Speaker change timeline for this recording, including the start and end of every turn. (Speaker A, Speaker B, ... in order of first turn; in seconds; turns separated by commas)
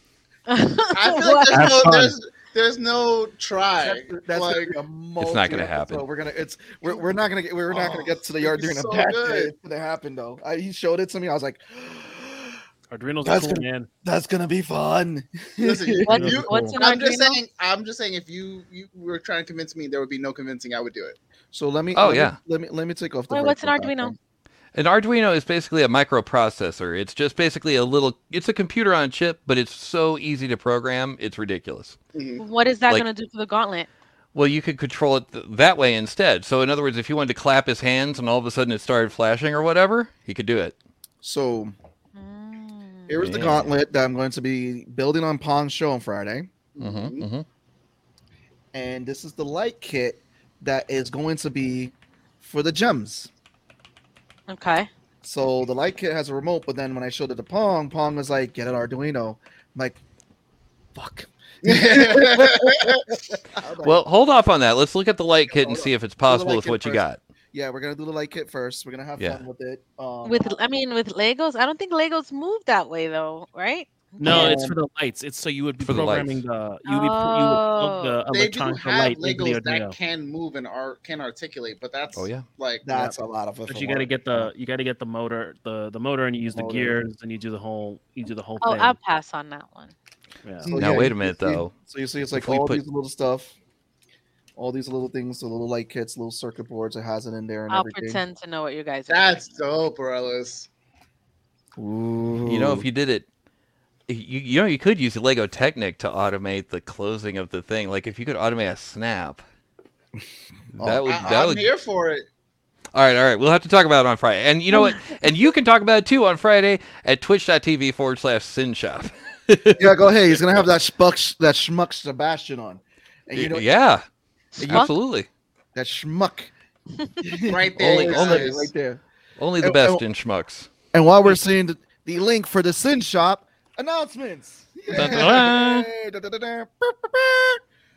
Speaker A: 0.5-1.6, Speaker B: 0.9-4.8, Speaker C: 3.8-12.6, Speaker D: 5.2-6.0, Speaker B: 7.7-9.5, Speaker E: 12.9-13.9, Speaker C: 13.2-16.8, Speaker B: 15.6-21.2, Speaker A: 16.1-17.4, Speaker C: 21.5-24.2, Speaker D: 21.9-22.4, Speaker A: 23.3-24.1, Speaker D: 24.8-32.0, Speaker B: 32.1-32.4, Speaker A: 32.4-33.9, Speaker D: 34.4-40.8, Speaker C: 41.2-41.8, Speaker A: 42.1-43.2, Speaker C: 43.1-46.5, Speaker D: 43.2-43.7, Speaker B: 46.8-47.3, Speaker D: 46.8-47.5, Speaker C: 48.7-53.3, Speaker A: 54.5-54.9, Speaker C: 55.2-60.0, Speaker C: 61.0-64.0, Speaker B: 61.6-63.1, Speaker D: 63.8-67.2, Speaker C: 65.5-70.6, Speaker D: 69.2-69.4, Speaker A: 70.2-74.5, Speaker E: 74.2-80.0, Speaker C: 74.2-74.8, Speaker D: 75.8-76.4, Speaker A: 76.9-78.2, Speaker B: 78.3-83.1, Speaker D: 82.2-82.5, Speaker C: 82.8-84.5, Speaker E: 83.7-89.0, Speaker C: 86.5-87.0, Speaker A: 88.6-89.9, Speaker E: 90.5-90.7, Speaker B: 90.6-91.0, Speaker C: 90.7-93.5, Speaker D: 90.8-91.7, Speaker D: 92.3-92.8, Speaker C: 94.6-98.2, Speaker A: 97.7-99.6, Speaker B: 99.1-100.7, Speaker C: 101.8-102.9, Speaker D: 102.5-103.3, Speaker D: 104.1-109.4, Speaker C: 110.8-111.1, Speaker D: 110.8-111.7, Speaker B: 111.1-112.3, Speaker D: 112.9-120.4, Speaker C: 119.8-123.7, Speaker D: 123.3-124.0, Speaker D: 124.6-125.3, Speaker C: 124.6-124.9, Speaker C: 125.8-126.5, Speaker C: 127.2-129.0, Speaker B: 127.5-128.7, Speaker D: 127.8-128.6, Speaker D: 129.4-130.7, Speaker C: 129.6-130.0, Speaker C: 130.9-137.6, Speaker D: 134.9-135.5, Speaker E: 135.0-135.9